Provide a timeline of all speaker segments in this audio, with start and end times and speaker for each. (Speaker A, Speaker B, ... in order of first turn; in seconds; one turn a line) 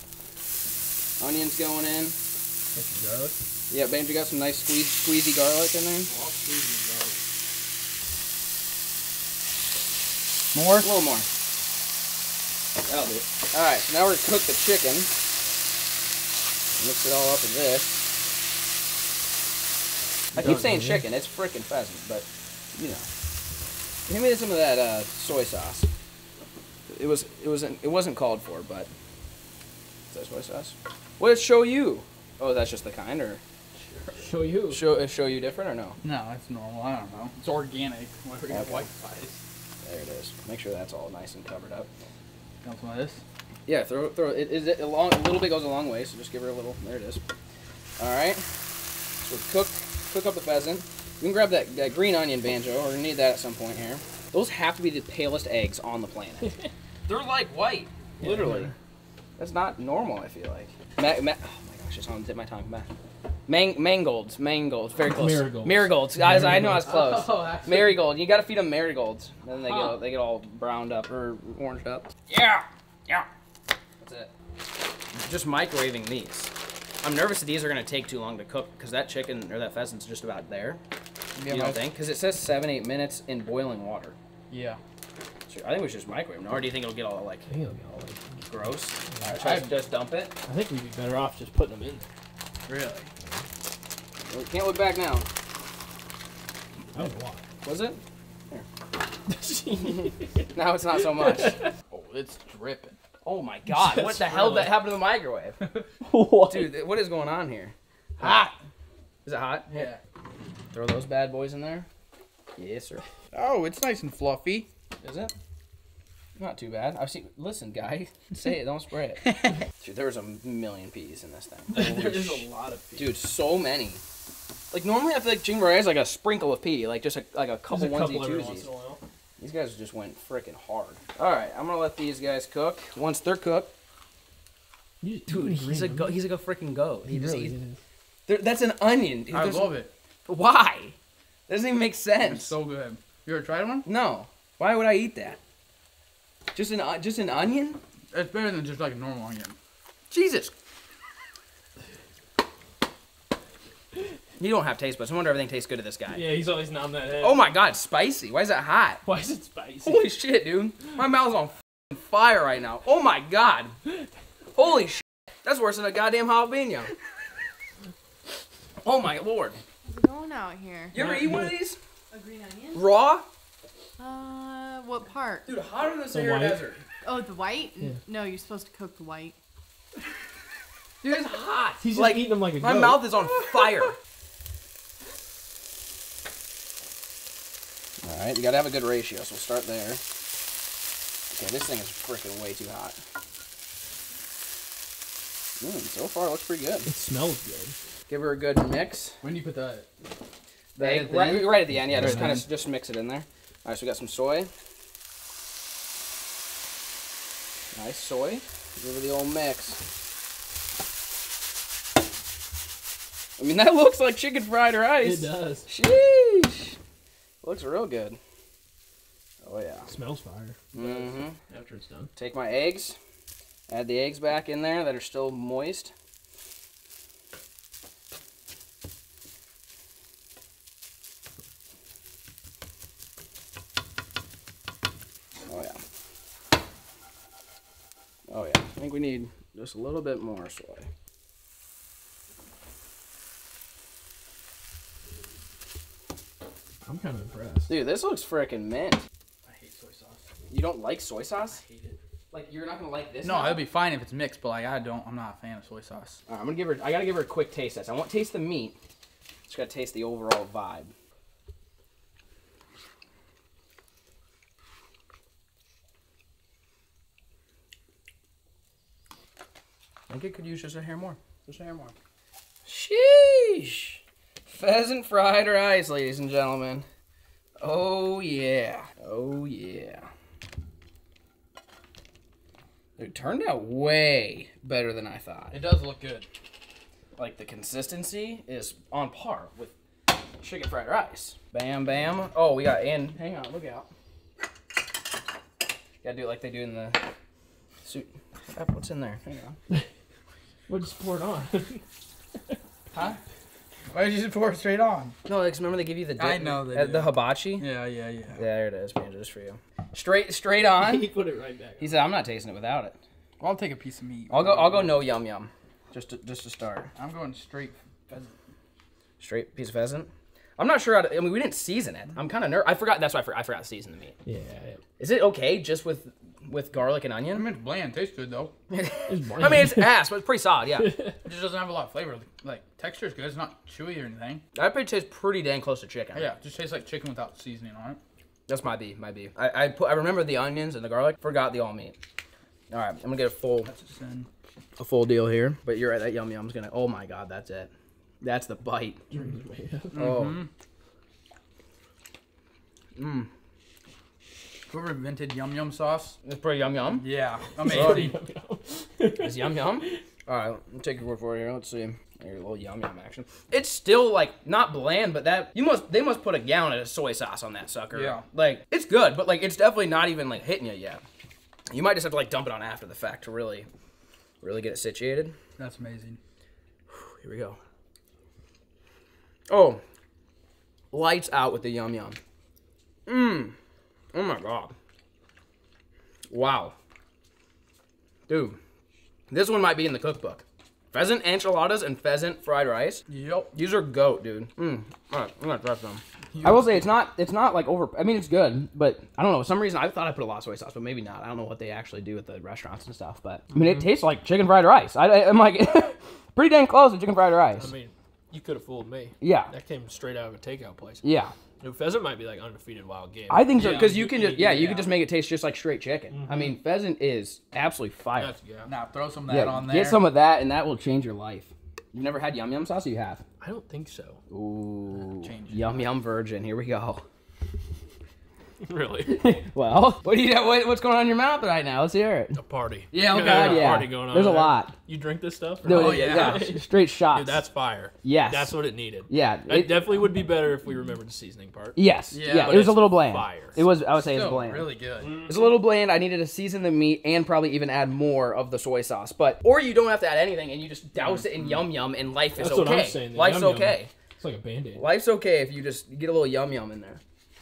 Speaker A: 1.2-2.2
Speaker B: 2.7-3.4
Speaker A: 3.7-6.1
Speaker C: 6.1-7.2
Speaker C: 10.5-10.9
Speaker A: 10.8-11.3
Speaker A: 12.8-15.1
Speaker A: 16.8-18.1
Speaker A: 20.3-23.1
Speaker B: 20.4-21.1
Speaker A: 24.1-25.9
Speaker A: 26.9-28.9
Speaker A: 30.1-33.4
Speaker C: 33.8-34.2
Speaker B: 34.2-34.8
Speaker A: 34.7-36.0
Speaker C: 36.0-39.4
Speaker A: 38.5-38.9
Speaker A: 39.8-41.9
Speaker C: 42.6-43.2
Speaker A: 43.7-47.2
Speaker A: 48.0-48.5
Speaker A: 49.2-56.5
Speaker B: 56.4-56.7
Speaker A: 57.1-58.7
Speaker B: 58.2-58.7
Speaker A: 59.4-62.9
Speaker A: 63.5-73.3
Speaker B: 65.0-66.9
Speaker C: 66.7-68.0
Speaker C: 69.7-69.9
Speaker A: 74.0-74.3
Speaker A: 75.1-80.8
Speaker C: 81.4-81.9
Speaker A: 81.5-84.2
Speaker C: 84.5-84.8
Speaker A: 85.5-87.5
Speaker B: 87.5-89.3
Speaker A: 88.5-90.3
Speaker C: 89.3-89.7
Speaker B: 90.4-92.1
Speaker C: 92.7-93.1
Speaker A: 94.3-95.3
Speaker B: 96.9-97.4
Speaker A: 97.6-98.7
Speaker B: 99.3-101.7
Speaker A: 99.8-101.6
Speaker C: 101.9-103.0
Speaker A: 103.2-105.6
Speaker B: 103.7-104.8
Speaker B: 106.0-106.7
Speaker A: 106.5-108.5
Speaker C: 108.2-108.5
Speaker A: 109.2-109.9
Speaker C: 109.7-110.0
Speaker A: 110.7-111.9
Speaker A: 112.6-113.0
Speaker C: 113.3-114.7
Speaker A: 115.0-115.3
Speaker A: 116.4-124.0
Speaker B: 121.7-123.1
Speaker A: 124.7-128.7
Speaker B: 127.7-129.0
Speaker A: 129.4-133.7
Speaker B: 135.0-136.2
Speaker A: 135.3-137.6
Speaker B: 137.1-137.8
Speaker A: 138.3-141.0
Speaker C: 139.3-139.9
Speaker A: 141.5-142.5
Speaker C: 142.2-143.9
Speaker A: 143.9-145.4
Speaker A: 146.5-147.8
Speaker C: 148.1-149.6
Speaker A: 150.1-150.5
Speaker A: 154.4-156.2
Speaker B: 156.1-157.5
Speaker A: 157.2-159.0
Speaker B: 159.1-160.0
Speaker A: 159.8-163.8
Speaker A: 164.6-166.9
Speaker A: 168.8-169.6
Speaker D: 169.8-171.0
Speaker A: 170.9-171.8
Speaker B: 170.9-171.6
Speaker D: 172.1-172.8
Speaker A: 172.7-173.3
Speaker D: 174.0-175.5
Speaker A: 175.5-176.8
Speaker B: 176.1-176.6
Speaker D: 177.0-179.4
Speaker A: 181.0-184.0
Speaker B: 181.8-183.1
Speaker A: 188.0-190.0
Speaker A: 191.3-193.0
Speaker A: 195.6-196.9
Speaker B: 196.9-197.8
Speaker A: 198.1-199.2
Speaker C: 199.2-199.9
Speaker A: 200.8-204.5
Speaker C: 200.8-202.4
Speaker B: 201.8-202.4
Speaker A: 207.7-209.8
Speaker A: 213.4-216.8
Speaker B: 215.0-215.7
Speaker A: 217.4-218.2
Speaker A: 219.4-219.9
Speaker B: 219.9-222.1
Speaker A: 220.7-221.4
Speaker A: 222.2-223.0
Speaker A: 223.7-225.9
Speaker A: 235.5-235.8
Speaker A: 238.3-240.9
Speaker B: 246.8-247.7
Speaker A: 247.7-249.0
Speaker C: 249.4-250.3
Speaker A: 250.5-251.6
Speaker C: 251.5-252.0
Speaker A: 252.3-253.6
Speaker C: 253.2-256.2
Speaker A: 256.3-258.8
Speaker A: 259.5-260.9
Speaker A: 270.1-271.9
Speaker A: 272.7-276.9
Speaker A: 277.6-280.1
Speaker A: 283.0-285.6
Speaker C: 285.5-286.3
Speaker A: 287.2-289.8
Speaker A: 290.4-293.9
Speaker A: 296.0-297.1
Speaker A: 297.8-299.6
Speaker B: 300.7-301.8
Speaker C: 302.9-303.2
Speaker C: 303.9-305.1
Speaker A: 305.3-307.7
Speaker C: 306.2-308.4
Speaker A: 308.3-311.1
Speaker B: 310.8-312.0
Speaker A: 311.8-313.0
Speaker C: 313.4-315.1
Speaker A: 314.3-316.9
Speaker C: 317.0-318.3
Speaker A: 319.2-324.1
Speaker B: 324.3-324.8
Speaker A: 325.0-327.5
Speaker C: 327.3-328.5
Speaker A: 328.7-330.9
Speaker B: 329.1-330.0
Speaker B: 330.8-331.2
Speaker C: 331.2-334.4
Speaker A: 334.6-336.4
Speaker C: 336.1-338.0
Speaker A: 338.5-342.0
Speaker A: 342.7-343.7
Speaker C: 343.6-344.3
Speaker A: 344.8-349.1
Speaker B: 349.1-350.0
Speaker C: 349.9-350.5
Speaker A: 349.9-350.4
Speaker A: 353.0-353.3
Speaker C: 354.7-356.2
Speaker A: 356.2-357.1
Speaker C: 356.9-358.2
Speaker B: 357.6-360.0
Speaker A: 357.7-358.1
Speaker A: 359.2-371.0
Speaker C: 367.9-368.2
Speaker A: 371.7-373.7
Speaker A: 374.4-375.4
Speaker C: 375.6-376.2
Speaker A: 376.9-377.6
Speaker A: 379.5-379.8
Speaker A: 380.9-382.2
Speaker A: 383.1-383.6
Speaker A: 384.1-384.8
Speaker A: 386.3-386.8
Speaker A: 388.3-388.6
Speaker A: 389.3-407.7
Speaker C: 393.1-393.6
Speaker C: 396.3-396.9
Speaker B: 407.6-411.0
Speaker A: 409.2-409.5
Speaker A: 411.0-411.3
Speaker B: 411.6-415.0
Speaker A: 413.3-418.4
Speaker C: 413.6-413.9
Speaker B: 416.1-416.5
Speaker B: 418.3-418.7
Speaker C: 418.7-420.0
Speaker A: 419.3-423.2
Speaker B: 423.4-424.2
Speaker A: 424.3-427.0
Speaker C: 425.0-425.9
Speaker B: 428.6-429.4
Speaker A: 429.1-432.4
Speaker B: 432.4-443.6
Speaker C: 432.9-433.9
Speaker A: 432.9-434.8
Speaker A: 435.6-437.4
Speaker C: 435.6-436.5
Speaker A: 438.0-438.5
Speaker A: 439.1-439.8
Speaker A: 441.8-444.8
Speaker C: 442.1-442.7
Speaker C: 443.9-445.1
Speaker B: 445.0-445.5
Speaker A: 445.3-453.9
Speaker C: 451.0-451.7
Speaker B: 452.4-454.8
Speaker A: 454.8-457.0